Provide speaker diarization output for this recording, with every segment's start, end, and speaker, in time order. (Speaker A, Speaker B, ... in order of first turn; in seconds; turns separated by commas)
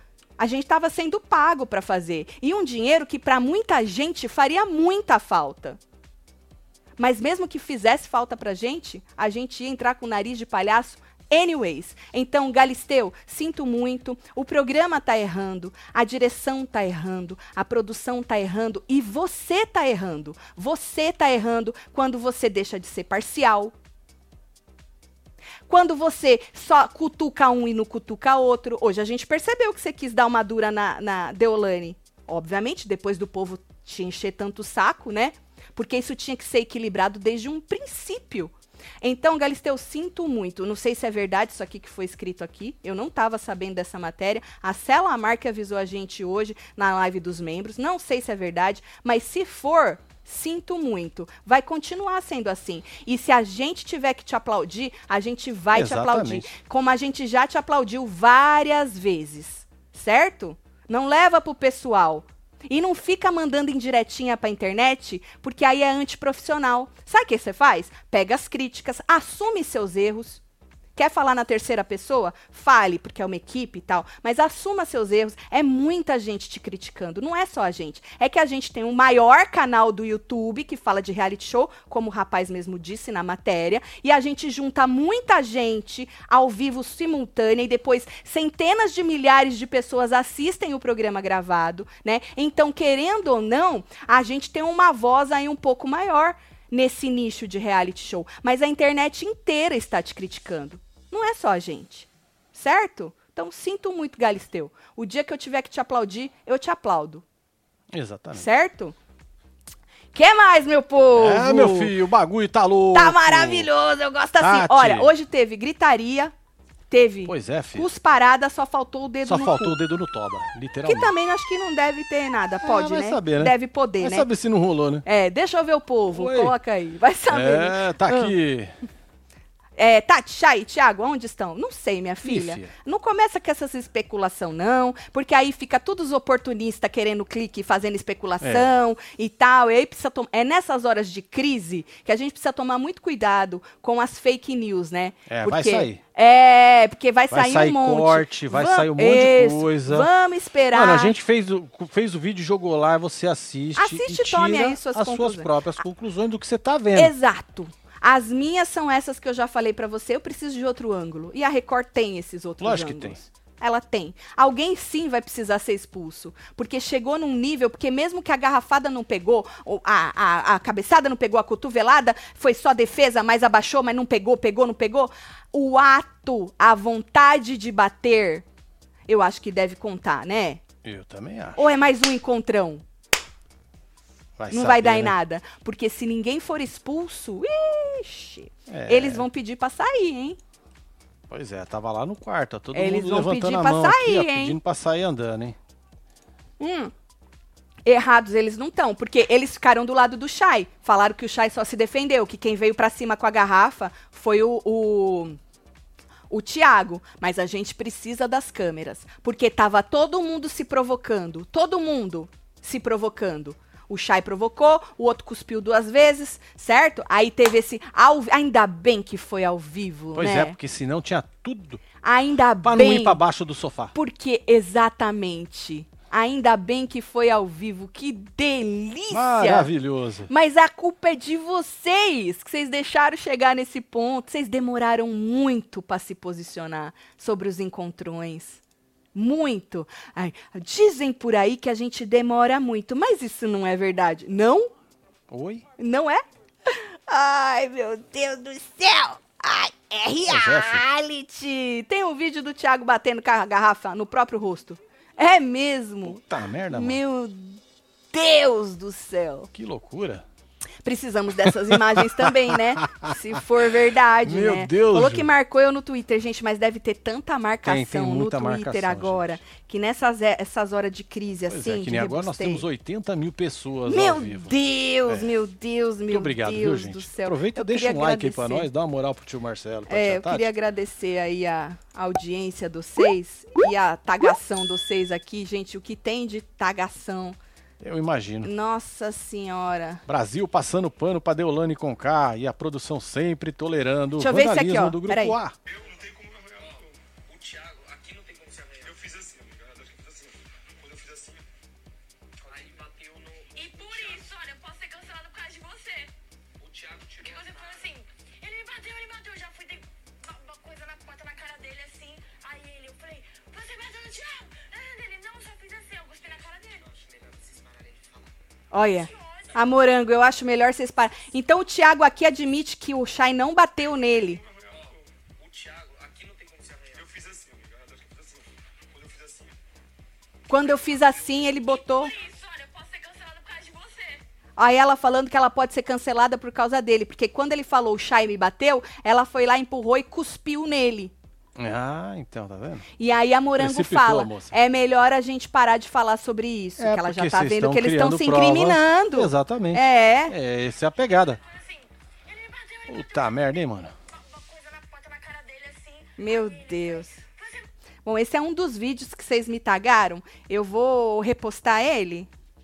Speaker A: 0.4-5.8, Speaker A: 7.0-23.7, Speaker A: 25.7-70.4, Speaker B: 55.7-56.5, Speaker A: 71.0-107.2, Speaker B: 107.9-108.5, Speaker A: 108.3-109.0, Speaker A: 110.1-111.9, Speaker B: 111.2-113.7, Speaker A: 112.9-116.3, Speaker B: 114.4-115.1, Speaker A: 116.9-119.8, Speaker B: 117.3-117.9, Speaker B: 119.2-121.1, Speaker A: 120.8-124.3, Speaker B: 122.6-125.0, Speaker A: 125.0-128.3, Speaker B: 126.1-126.5, Speaker B: 127.3-128.7, Speaker A: 129.8-151.2, Speaker B: 132.2-132.7, Speaker B: 138.4-138.7, Speaker B: 145.3-146.0, Speaker B: 147.3-150.1, Speaker B: 150.7-157.1, Speaker A: 153.8-155.5, Speaker A: 156.9-178.4, Speaker B: 162.6-163.2, Speaker A: 179.1-180.6, Speaker B: 180.8-181.6, Speaker A: 181.6-182.8, Speaker B: 184.4-185.2, Speaker A: 184.5-190.4, Speaker B: 188.7-189.2, Speaker B: 191.3-195.6, Speaker A: 192.7-194.6, Speaker A: 196.6-196.9, Speaker A: 197.9-205.4, Speaker A: 206.3-220.6, Speaker B: 220.2-221.8, Speaker A: 222.0-223.2, Speaker B: 222.6-223.9, Speaker A: 223.9-229.7, Speaker B: 229.1-230.3, Speaker A: 230.3-238.6, Speaker A: 239.1-244.7, Speaker B: 245.3-245.7, Speaker A: 245.8-256.2, Speaker B: 250.3-250.8, Speaker B: 256.1-257.0, Speaker A: 256.7-257.6, Speaker A: 258.1-259.5, Speaker B: 259.5-260.2, Speaker A: 260.8-272.6, Speaker B: 261.4-263.1, Speaker B: 264.2-265.3, Speaker B: 267.6-269.4, Speaker B: 271.5-274.5, Speaker A: 273.9-278.7, Speaker B: 275.1-275.3, Speaker B: 276.1-280.5, Speaker A: 279.9-287.4, Speaker B: 287.8-288.5, Speaker A: 288.4-290.0, Speaker B: 290.1-295.6, Speaker A: 294.2-295.4, Speaker C: 297.5-299.1, Speaker C: 302.5-306.1, Speaker C: 306.8-318.0, Speaker A: 318.7-324.4, Speaker C: 326.5-327.1, Speaker A: 330.5-332.1, Speaker C: 331.4-334.2, Speaker A: 334.6-341.1, Speaker B: 341.6-342.9, Speaker A: 343.0-350.3, Speaker B: 343.6-344.5, Speaker B: 346.8-351.4, Speaker C: 351.4-353.4, Speaker B: 352.9-353.9, Speaker C: 354.1-357.7, Speaker A: 356.2-357.2, Speaker A: 358.1-362.3